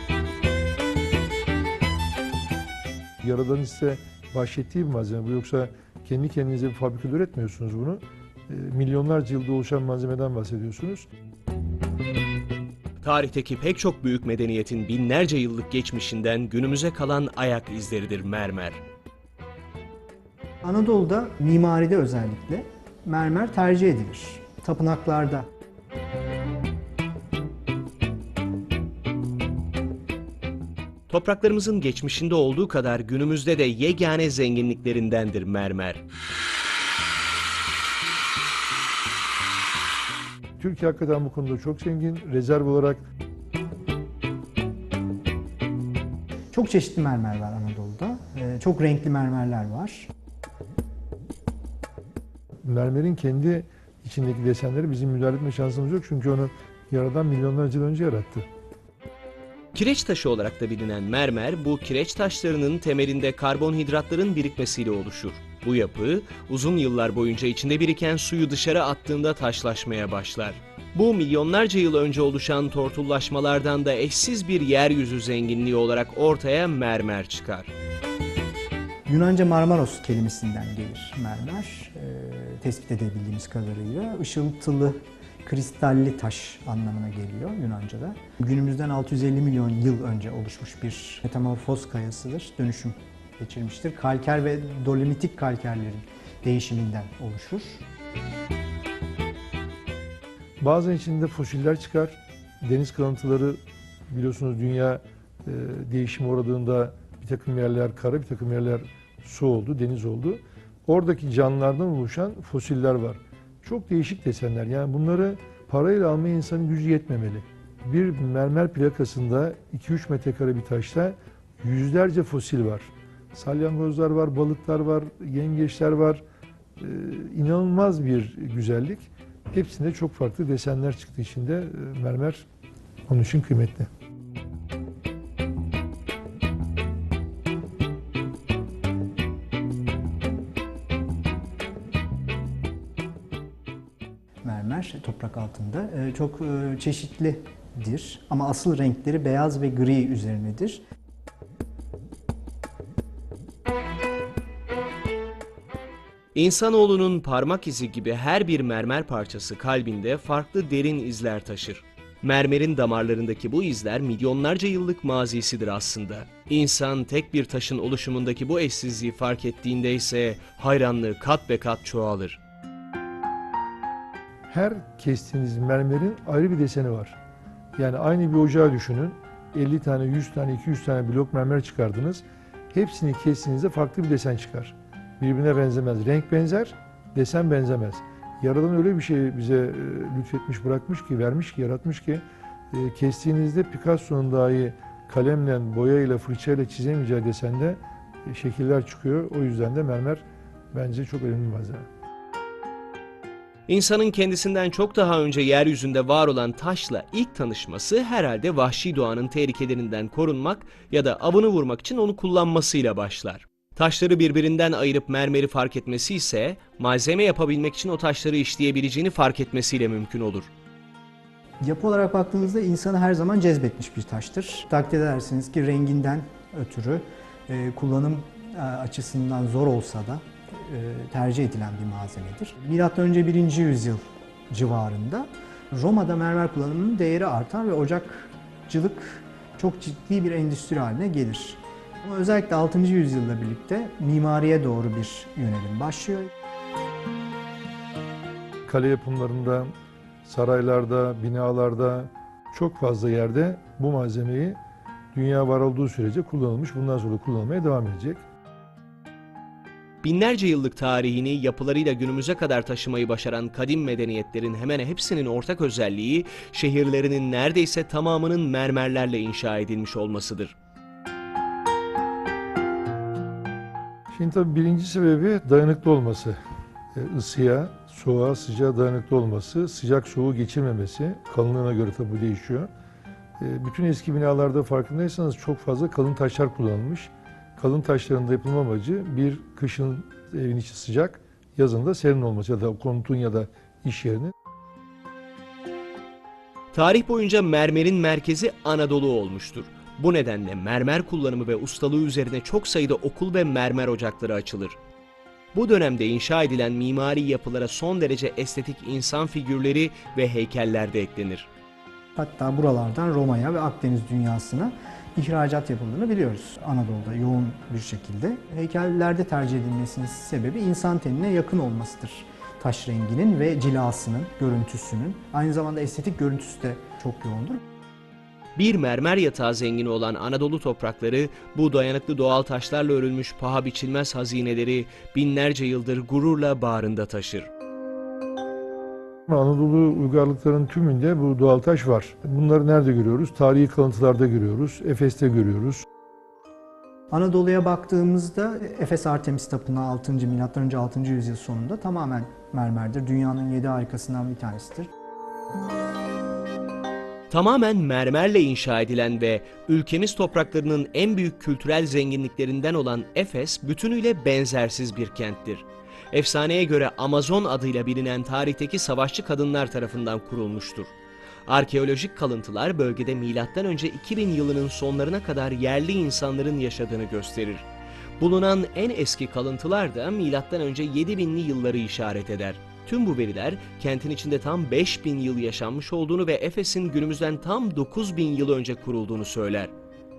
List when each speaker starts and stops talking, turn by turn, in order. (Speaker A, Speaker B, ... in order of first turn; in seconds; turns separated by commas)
Speaker A: 3.2-11.1, Speaker B: 13.0-18.8, Speaker C: 20.6-25.5, Speaker B: 31.1-36.0, Speaker A: 40.6-43.0, Speaker C: 46.5-50.1, Speaker A: 52.6-58.5, Speaker B: 59.7-77.7, Speaker C: 79.0-97.8, Speaker A: 100.6-103.6, Speaker A: 104.1-126.2, Speaker A: 126.8-132.4, Speaker A: 133.1-133.9, Speaker C: 144.4-150.8, Speaker B: 156.3-172.4, Speaker A: 174.5-177.2, Speaker A: 177.8-201.9, Speaker B: 203.7-220.5, Speaker C: 221.6-246.3, Speaker A: 248.7-249.7, Speaker A: 250.2-254.6, Speaker A: 255.1-258.2, Speaker B: 260.0-270.5, Speaker A: 274.1-276.4, Speaker A: 276.9-282.7, Speaker A: 283.4-294.3, Speaker B: 296.7-304.8, Speaker B: 305.5-311.5, Speaker C: 312.1-327.6, Speaker B: 328.6-337.5, Speaker A: 339.3-345.8, Speaker C: 347.1-354.9, Speaker B: 357.3-370.9, Speaker B: 371.4-377.7, Speaker B: 378.2-389.7